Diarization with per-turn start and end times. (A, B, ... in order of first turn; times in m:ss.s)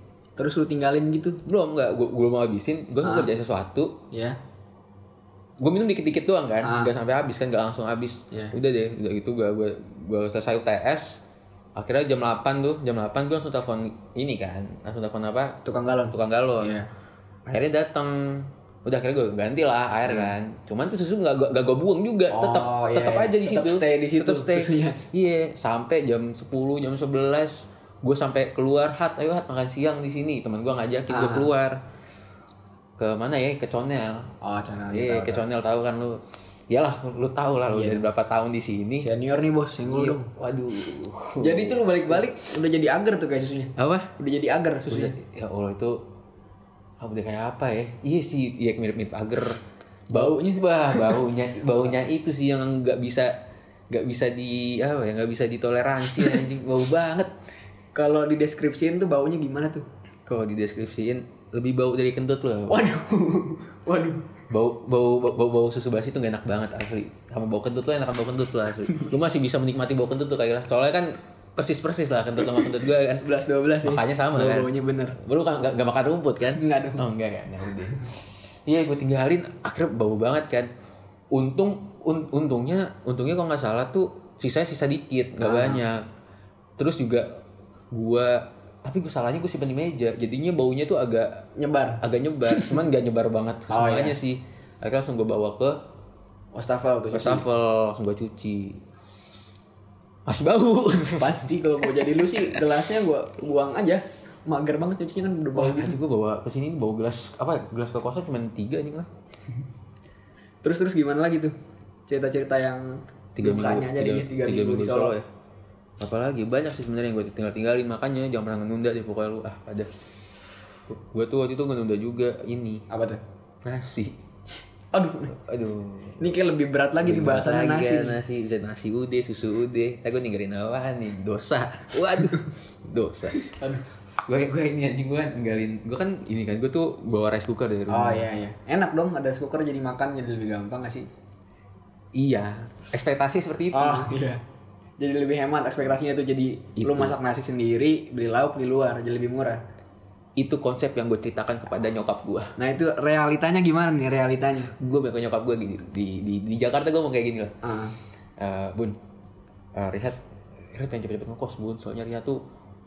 0:00.4-0:01.4 A
0:01.4-0:04.0 B
0:03.0-0:03.3 A
0:04.1-0:04.4 A
0:05.6-0:11.2 B
0:06.6-0:06.9 A
0:11.8-0:16.8 B
0:15.6-0:16.9 A
0:17.4-0:31.8 B
0:20.1-0:20.3 A
0:22.3-0:25.0 A
0:31.1-0:31.5 A
0:33.0-0:34.3 B
0:34.4-0:35.4 A
0:34.9-0:39.1 B
0:37.7-0:38.1 A
0:39.0-0:40.3 A
0:39.8-0:42.2 B
0:41.4-0:45.1 A
0:43.8-0:44.1 B
0:44.9-0:46.0 B
0:47.0-0:53.3 B
0:50.1-0:51.2 A
0:53.9-0:57.3 B
0:57.9-0:59.8 A
1:00.2-1:02.8 B
1:02.7-1:04.3 A
1:04.5-1:13.3 B
1:12.6-1:15.2 A
1:13.8-1:18.1 B
1:16.5-1:17.0 A
1:18.6-1:20.7 B
1:21.3-1:26.0 B
1:25.4-1:25.8 A
1:26.8-1:27.4 B
1:27.9-1:31.5 B
1:31.6-1:32.8 A
1:32.0-1:35.8 B
1:33.7-1:34.2 A
1:36.5-1:37.4 A
1:37.1-1:38.8 B
1:40.2-1:41.3 B
1:41.2-1:46.0 A
1:45.5-1:49.1 B
1:50.6-1:51.5 A
1:52.1-1:55.1 A
1:53.4-1:55.3 B
1:56.0-1:59.9 B
2:00.9-2:02.8 B
2:02.9-2:03.2 A
2:03.6-2:04.2 B
2:04.9-2:05.4 A
2:05.3-2:06.2 B
2:06.2-2:08.2 A
2:07.0-2:13.5 B
2:13.4-2:13.8 A
2:14.2-2:18.3 B
2:17.9-2:21.1 A
2:22.1-2:24.1 B
2:23.7-2:24.4 A
2:25.0-2:29.6 A
2:26.8-2:27.1 B
2:30.4-2:32.6 B
2:32.6-2:34.7 A
2:34.7-2:37.6 B
2:37.6-2:38.0 A
2:38.4-2:39.0 B
2:39.7-2:42.4 B